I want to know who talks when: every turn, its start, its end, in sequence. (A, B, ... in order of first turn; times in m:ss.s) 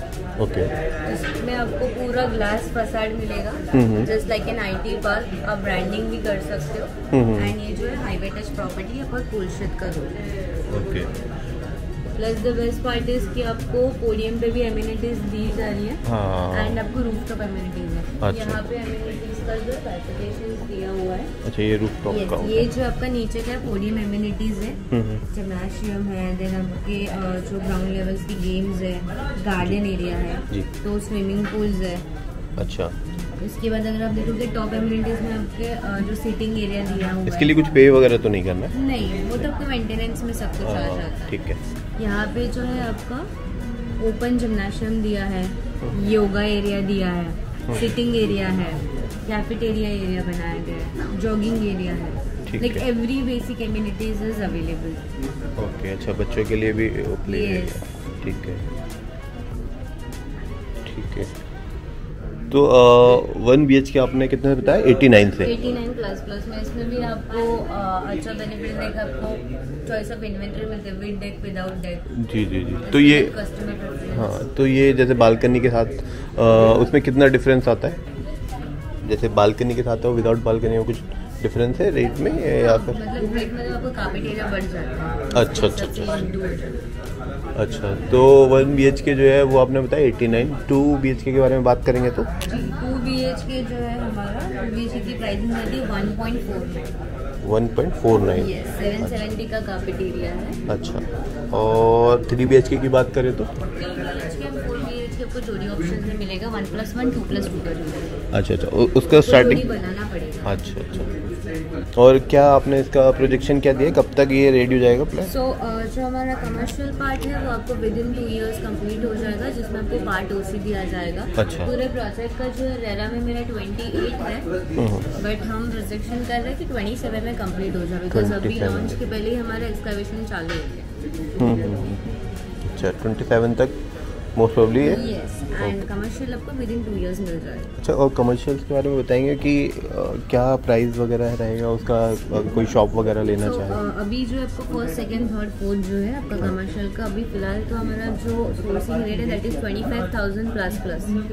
0:00.4-0:00.7 A
0:01.0-0:10.1 B
0:03.7-0:04.1 A
0:07.1-0:07.5 A
0:10.7-0:11.1 A
0:12.1-0:21.3 B
0:16.0-0:16.8 A
0:18.2-0:18.6 A
0:21.4-0:22.7 A
0:22.0-0:32.0 B
0:24.9-0:25.2 A
0:32.6-0:32.9 A
0:33.4-0:37.6 B
0:37.2-0:38.7 A
0:38.7-0:41.4 B
0:40.6-0:41.6 A
0:42.0-0:43.3 B
0:44.0-0:55.1 B
0:52.4-0:52.8 A
0:55.6-0:58.6 A
0:57.2-0:58.0 B
1:00.8-1:01.3 A
1:02.5-1:05.5 A
1:05.4-1:12.2 B
1:12.1-1:13.3 A
1:12.8-1:14.4 B
1:14.1-1:18.0 A
1:19.0-1:23.0 A
1:22.6-1:26.8 B
1:25.3-1:26.2 A
1:27.6-1:32.3 A
1:32.4-1:36.9 B
1:37.4-1:39.2 A
1:38.2-1:40.6 B
1:40.7-1:43.5 A
1:43.8-1:48.1 B
1:48.3-1:49.6 A
1:49.2-1:50.5 B
1:50.4-1:51.2 A
1:52.0-1:55.3 A
1:55.2-2:04.5 B
2:01.4-2:01.7 A
2:04.8-2:05.1 A
2:05.1-2:10.9 B
2:08.1-2:09.0 A
2:11.4-2:12.1 A
2:12.6-2:13.8 A
2:14.3-2:15.0 A
2:14.8-2:17.7 B
2:15.6-2:15.8 A
2:17.8-2:23.8 A
2:23.4-2:31.2 B